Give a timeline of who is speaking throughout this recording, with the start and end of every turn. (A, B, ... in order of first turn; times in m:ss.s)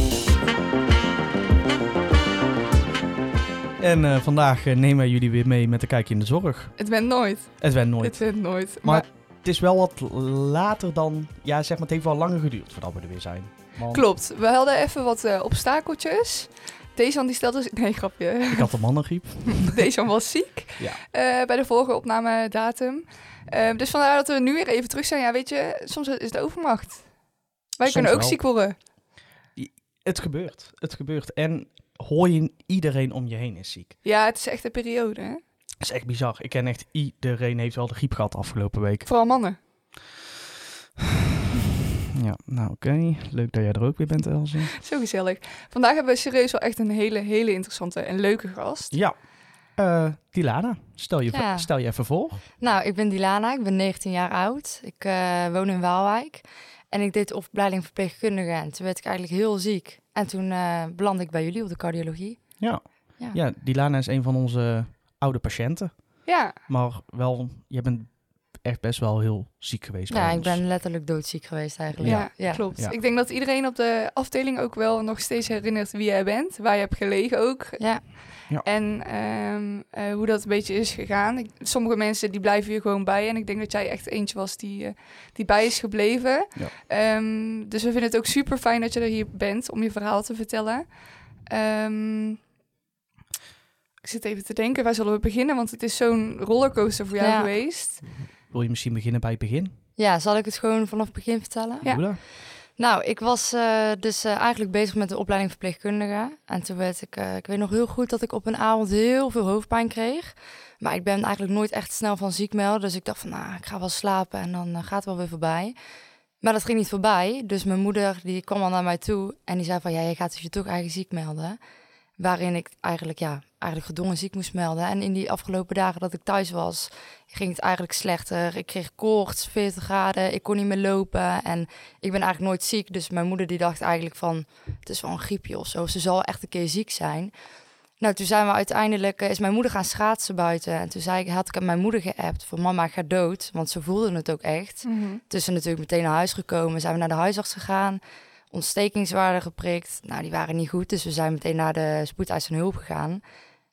0:03.8-0:06.9 A
0:06.8-0:09.1 B
0:07.6-0:14.1 A
0:13.9-0:28.8 B
0:18.5-0:19.8 A
0:27.8-0:28.5 A
0:29.6-0:34.0 A
0:34.0-0:35.4 B
0:35.8-0:39.1 A
0:39.0-0:39.6 B
0:42.1-0:44.8 A
0:44.8-0:49.0 B
0:48.9-0:52.4 A
0:51.3-0:51.7 C
0:52.4-1:02.6 C
1:02.6-1:10.6 A
1:06.3-1:06.6 B
1:10.1-1:12.7 C
1:11.9-1:13.0 A
1:12.0-1:32.4 B
1:17.8-1:18.1 C
1:34.0-1:38.0 B
1:37.2-1:37.5 C
1:38.0-1:39.7 A
1:40.0-1:42.1 C
1:41.8-1:42.2 A
1:42.8-1:55.8 C
1:56.4-2:01.6 C
2:02.2-2:17.3 C
2:18.0-2:33.2 C
2:24.8-2:25.2 B